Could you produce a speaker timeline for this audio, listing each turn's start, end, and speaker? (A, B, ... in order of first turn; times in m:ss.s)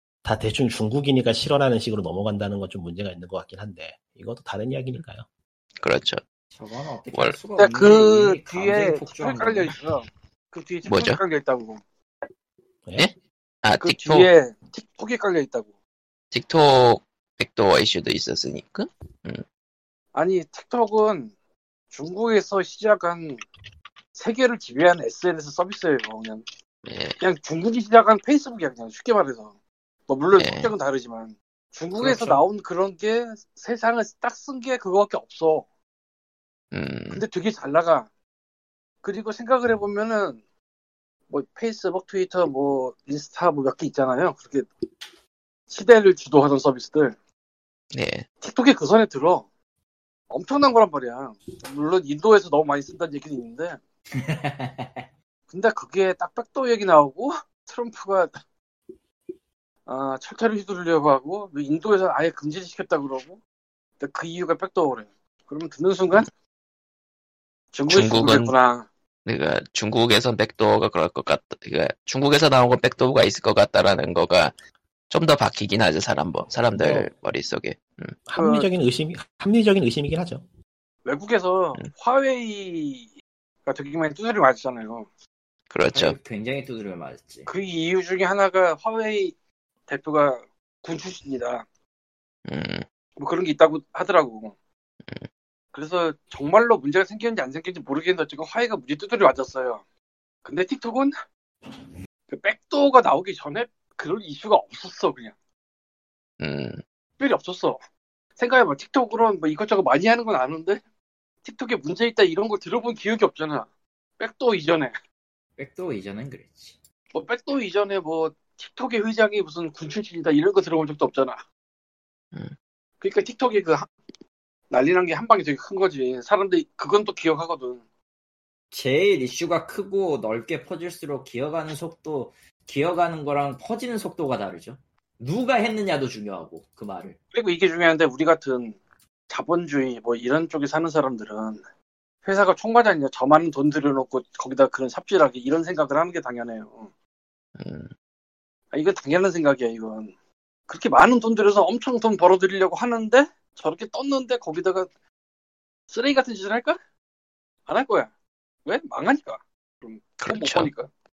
0:00.2-0:05.3 A
0:05.8-0:06.2 B
0:06.5-0:09.8 C
0:07.6-0:11.8 D
0:10.9-0:11.2 B
0:13.0-0:14.3 B
0:13.8-0:15.7 D
0:16.3-0:19.4 B
0:20.1-0:21.3 D
0:21.9-0:23.4 D
0:24.2-0:26.4 D
0:26.9-0:27.2 B
0:27.2-0:29.5 D
0:30.1-0:35.6 D
0:30.4-0:30.7 B
0:32.0-0:32.4 B
0:36.7-0:37.2 B
0:37.1-0:38.1 D
0:39.0-0:40.4 D
0:41.3-0:44.7 D
0:45.7-0:47.2 D
0:47.9-0:48.3 B
0:48.4-0:49.5 D
0:50.3-0:53.8 D
0:54.2-0:55.1 C
0:55.5-0:58.4 D
0:59.9-1:03.4 D
1:04.0-1:06.3 D
1:07.7-1:08.9 D
1:07.9-1:08.5 B
1:09.3-1:14.5 B
1:15.1-1:18.2 B
1:16.7-1:17.1 A
1:18.3-1:20.4 A
1:18.4-1:18.7 D
1:21.0-1:23.1 D
1:23.7-1:25.1 D
1:25.7-1:26.2 B
1:25.9-1:27.5 C
1:27.5-1:29.3 D
1:29.9-1:31.6 D
1:32.5-1:32.8 B
1:33.2-1:34.6 D
1:35.7-1:39.8 D
1:40.4-1:41.1 D
1:42.3-1:45.3 D
1:46.4-1:46.8 B
1:47.2-1:47.8 D
1:48.4-1:50.8 D
1:51.4-1:54.9 D
1:55.6-1:56.8 C
1:57.1-2:01.4 D
2:03.0-2:03.9 D
2:04.7-2:07.8 D
2:08.7-2:17.2 C
2:17.3-2:18.8 D
2:19.3-2:21.6 D
2:22.2-2:26.9 D
2:27.6-2:27.9 B
2:28.7-2:30.1 D
2:30.7-2:34.9 D
2:35.9-2:36.8 D
2:37.7-2:38.1 D
2:38.7-2:40.9 D
2:40.2-2:40.7 B